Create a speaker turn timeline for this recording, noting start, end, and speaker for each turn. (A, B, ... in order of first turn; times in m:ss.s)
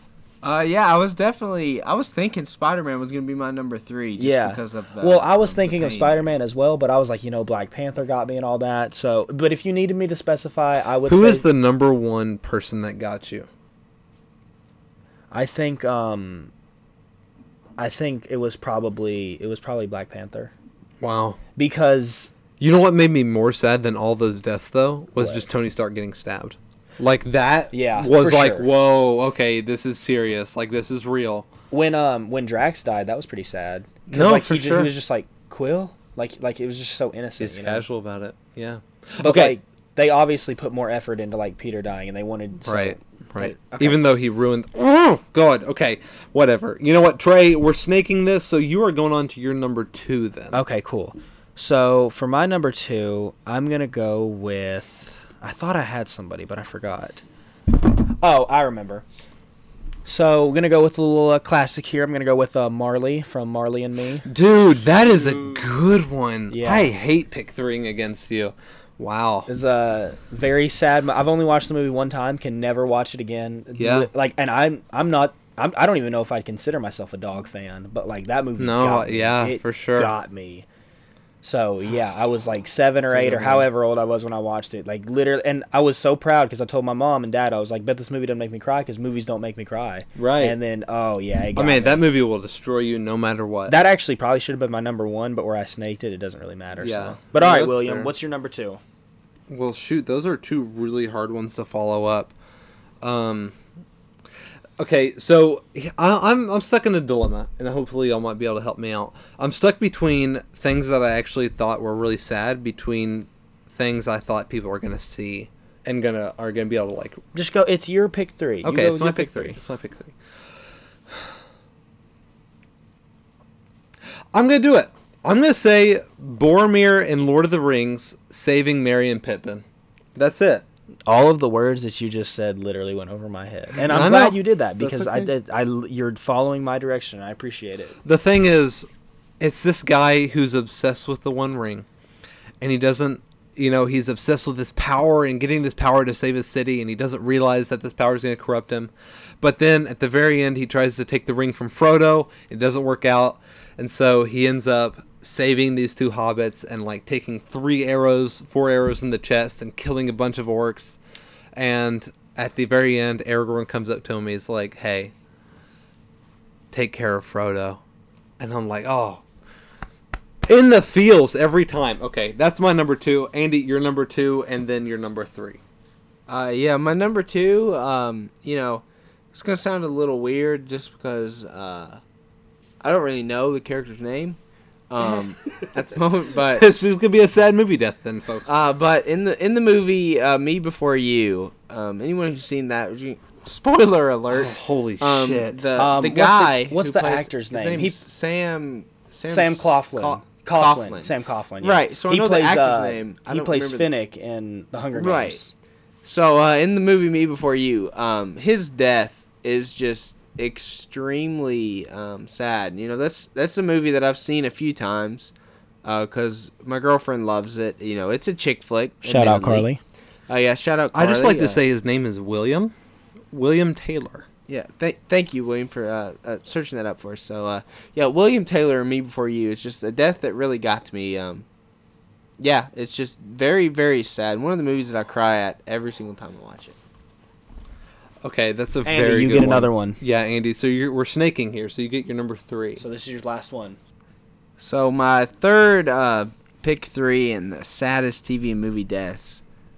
0:00.4-0:06.3 A
0:04.2-0:11.5 B
0:11.0-0:13.5 C
0:15.3-0:16.5 B
0:17.8-0:20.5 B
0:21.0-0:21.4 C
0:21.6-0:22.3 B
0:22.6-0:31.5 C
0:25.2-0:25.4 B
0:27.7-0:28.7 B
0:31.7-0:37.8 B
0:34.1-0:34.9 C
0:37.4-0:39.6 C
0:39.2-0:44.0 B
0:42.6-0:50.6 C
0:50.5-0:57.2 B
0:58.2-0:59.0 B
1:00.0-1:04.3 B
1:04.2-1:09.5 C
1:06.5-1:06.9 B
1:09.5-1:20.6 B
1:13.8-1:14.1 C
1:18.6-1:20.1 C
1:21.4-1:32.0 B
1:23.0-1:23.7 C
1:30.2-1:30.6 C
1:31.6-1:33.7 C
1:33.7-1:38.8 B
1:36.8-1:38.1 C
1:39.5-1:42.3 C
1:43.0-1:43.6 C
1:44.8-1:57.2 C
1:57.3-1:59.6 B
1:58.6-2:00.1 C
2:04.3-2:09.6 C
2:10.1-2:10.6 C
2:11.1-2:18.0 B
2:13.8-2:15.3 C
2:18.0-2:18.9 C
2:19.4-2:21.9 C
2:22.6-2:41.0 C
2:41.5-2:45.1 C
2:46.7-2:47.8 C
2:48.4-2:49.2 C
2:50.4-2:55.6 C
2:56.3-2:58.8 A
2:59.3-3:02.0 A
3:02.8-3:04.4 A
3:04.9-3:06.7 A
3:06.5-3:08.5 C
3:08.4-3:23.9 A
3:14.3-3:15.6 C
3:15.8-3:18.0 B
3:19.3-3:25.5 B
3:24.9-3:25.4 A
3:26.0-3:35.3 A
3:35.8-3:39.7 A
3:39.0-3:39.8 B
3:40.3-3:41.6 A
3:40.9-3:42.7 C
3:43.3-3:44.2 C
3:44.5-3:51.4 A
3:52.4-3:56.8 A
3:58.2-4:02.8 C
3:58.8-4:00.0 B
4:02.8-4:03.8 B
4:04.6-4:09.4 A